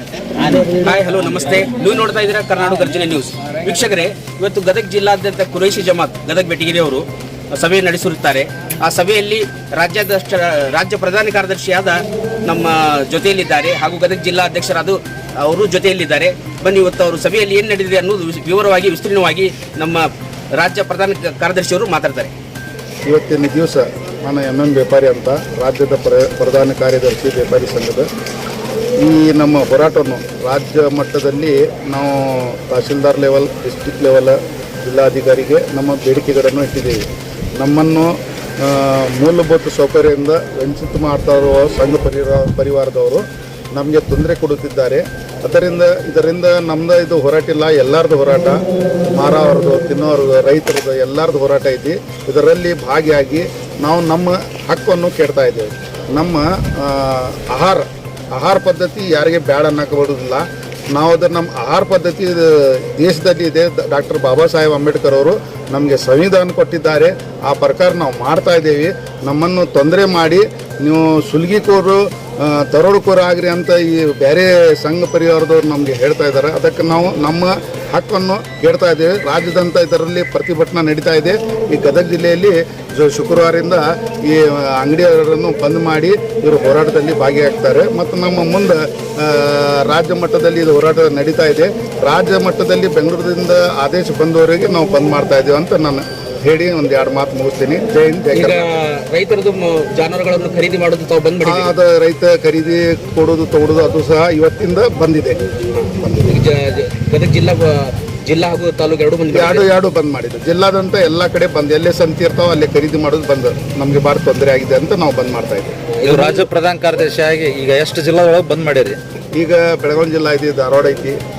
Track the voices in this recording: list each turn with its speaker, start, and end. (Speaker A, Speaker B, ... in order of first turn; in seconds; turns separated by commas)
Speaker A: 0.4-22.3, Speaker B: 23.0-28.1, Speaker B: 29.0-37.0, Speaker B: 37.6-48.6, Speaker B: 49.1-98.7, Speaker A: 98.3-101.7, Speaker B: 101.4-105.4, Speaker B: 106.0-106.4, Speaker A: 106.3-109.7, Speaker B: 109.3-115.7, Speaker C: 116.0-119.0, Speaker A: 116.1-116.4, Speaker B: 119.3-121.2